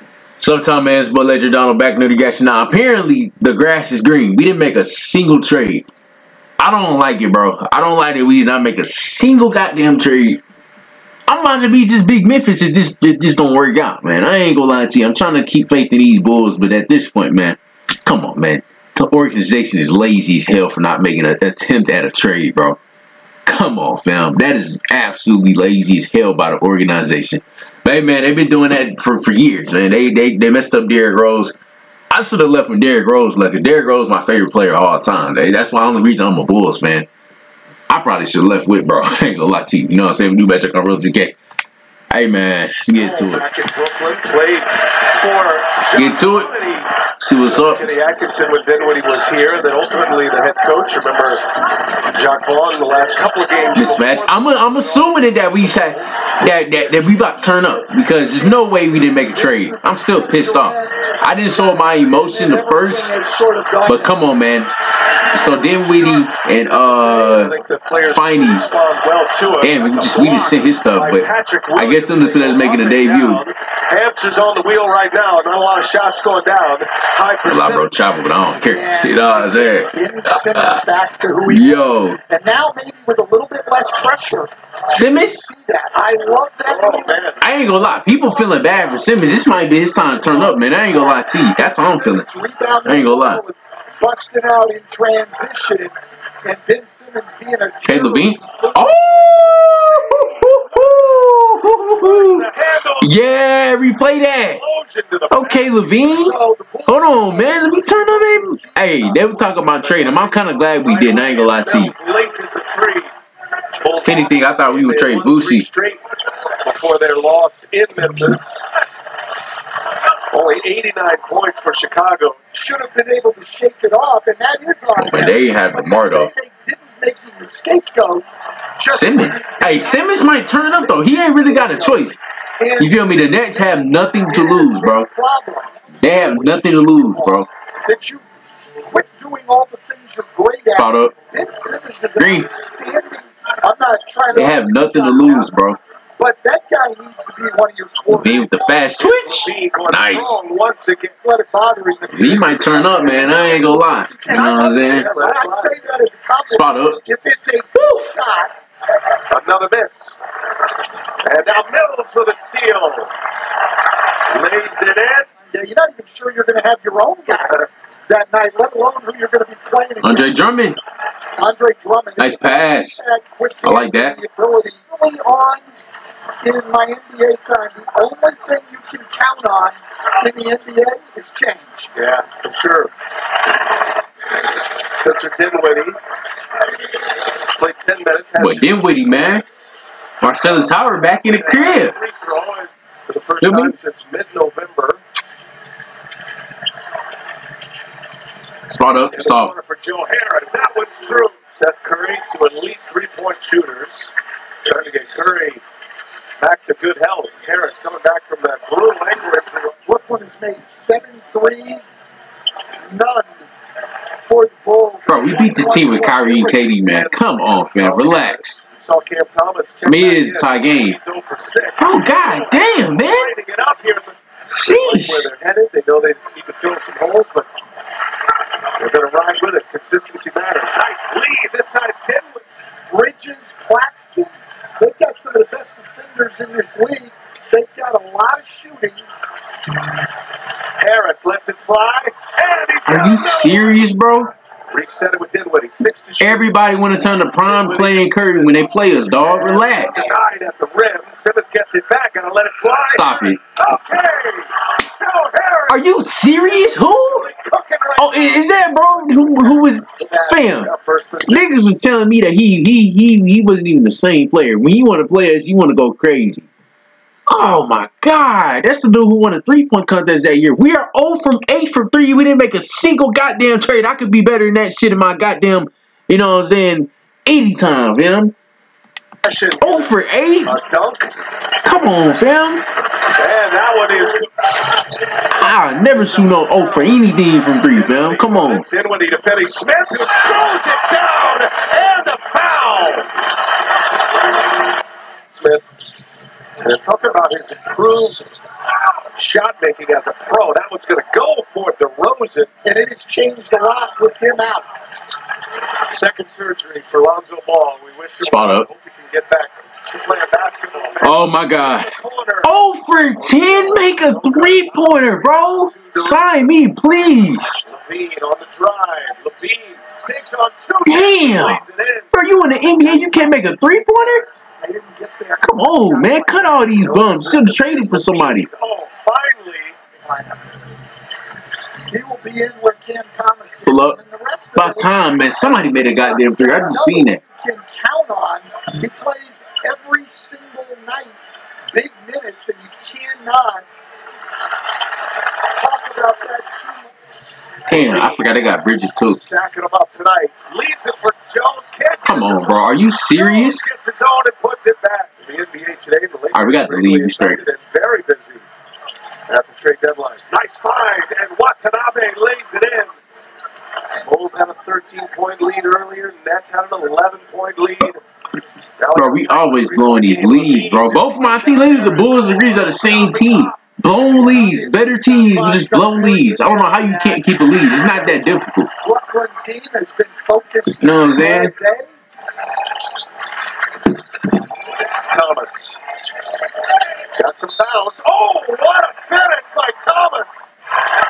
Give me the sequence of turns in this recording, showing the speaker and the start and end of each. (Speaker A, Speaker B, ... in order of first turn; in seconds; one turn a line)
Speaker A: 0.4-5.9
Speaker A: 6.6-10.4
Speaker A: 11.3-22.8
Speaker A: 23.5-31.6
Speaker A: 32.1-37.1
Speaker A: 37.9-41.4
Speaker A: 42.1-43.5
Speaker B: 42.9-51.5
Speaker A: 46.0-46.5
Speaker A: 47.2-47.9
Speaker B: 52.1-56.1
Speaker A: 53.7-63.1
Speaker C: 57.2-64.2
Speaker A: 63.9-64.7
Speaker A: 65.3-67.5
Speaker B: 66.0-77.9
Speaker A: 68.1-68.7
Speaker A: 69.6-73.4
Speaker A: 77.5-79.9
Speaker C: 78.6-87.2
Speaker A: 80.5-80.8
Speaker A: 81.5-82.2
Speaker A: 84.9-85.4
Speaker B: 86.7-87.5
Speaker A: 87.4-92.3
Speaker C: 90.1-98.8
Speaker A: 92.8-93.4
Speaker A: 97.8-104.6
Speaker B: 100.0-100.6
Speaker B: 102.0-103.2
Speaker B: 104.5-105.9
Speaker A: 105.3-111.9
Speaker C: 106.1-109.6
Speaker B: 109.7-113.1
Speaker B: 113.8-116.0
Speaker A: 114.0-115.7
Speaker B: 116.6-118.6
Speaker B: 120.3-122.4
Speaker C: 122.5-128.3
Speaker A: 125.0-126.3
Speaker C: 128.8-133.7
Speaker A: 128.9-132.2
Speaker A: 132.8-135.1
Speaker C: 134.3-138.2
Speaker A: 136.0-137.5
Speaker C: 138.9-145.5
Speaker A: 140.7-141.1
Speaker A: 142.2-142.5
Speaker A: 144.3-145.8
Speaker C: 146.2-148.6
Speaker A: 148.1-150.4
Speaker B: 149.0-151.2
Speaker C: 151.2-158.5
Speaker A: 152.1-155.1
Speaker B: 154.5-155.7
Speaker A: 156.5-157.0
Speaker A: 157.8-158.1
Speaker B: 159.3-160.2
Speaker B: 161.2-163.1
Speaker B: 164.3-165.3
Speaker C: 165.5-170.3
Speaker B: 167.3-167.7
Speaker A: 170.0-170.8
Speaker C: 171.4-175.7
Speaker A: 172.2-173.0
Speaker A: 173.6-174.2
Speaker C: 176.4-181.9
Speaker B: 181.9-182.9
Speaker B: 185.0-186.0
Speaker B: 187.5-189.3
Speaker A: 188.4-189.5
Speaker A: 190.2-192.0
Speaker B: 191.2-195.0
Speaker A: 193.4-193.7
Speaker A: 198.7-199.5
Speaker B: 199.1-204.1
Speaker B: 204.7-205.6
Speaker B: 206.4-209.8
Speaker C: 209.9-211.9
Speaker C: 212.9-213.5
Speaker C: 214.3-216.6
Speaker A: 215.1-218.6
Speaker B: 216.5-227.5
Speaker A: 219.9-221.0
Speaker A: 221.8-223.3
Speaker A: 224.5-225.3
Speaker B: 228.8-232.5
Speaker C: 232.9-239.1
Speaker B: 240.8-243.9
Speaker A: 242.9-244.3
Speaker B: 244.7-246.5
Speaker A: 246.2-250.2
Speaker B: 247.4-261.5
Speaker A: 252.9-253.4
Speaker A: 255.7-257.3
Speaker A: 258.0-260.7
Speaker A: 261.3-266.5
Speaker A: 267.3-278.3
Speaker B: 279.2-281.1
Speaker A: 279.6-280.6
Speaker A: 281.6-282.6
Speaker B: 283.1-284.5
Speaker A: 285.4-288.6
Speaker B: 285.6-287.0
Speaker B: 287.7-293.2
Speaker B: 295.3-295.7
Speaker B: 296.6-298.4
Speaker B: 299.1-302.5
Speaker C: 302.6-304.7
Speaker B: 305.9-312.5
Speaker A: 308.2-308.7
Speaker A: 311.0-311.9
Speaker A: 312.4-317.6
Speaker B: 313.1-316.6
Speaker B: 317.6-322.1
Speaker A: 320.9-321.6
Speaker A: 322.1-324.3
Speaker C: 322.8-327.7
Speaker A: 325.4-328.5
Speaker B: 327.1-329.8
Speaker C: 330.0-330.5
Speaker C: 331.9-343.7
Speaker A: 333.7-334.0
Speaker A: 334.6-337.2
Speaker C: 345.6-346.9
Speaker A: 347.7-349.2
Speaker B: 347.7-348.3
Speaker B: 349.1-358.5
Speaker A: 352.1-353.7
Speaker A: 356.3-357.4
Speaker B: 359.3-362.9
Speaker B: 364.0-368.0
Speaker B: 368.8-373.8
Speaker A: 368.9-378.7
Speaker C: 374.1-381.9
Speaker A: 380.8-381.5
Speaker B: 385.1-385.8
Speaker B: 387.1-390.5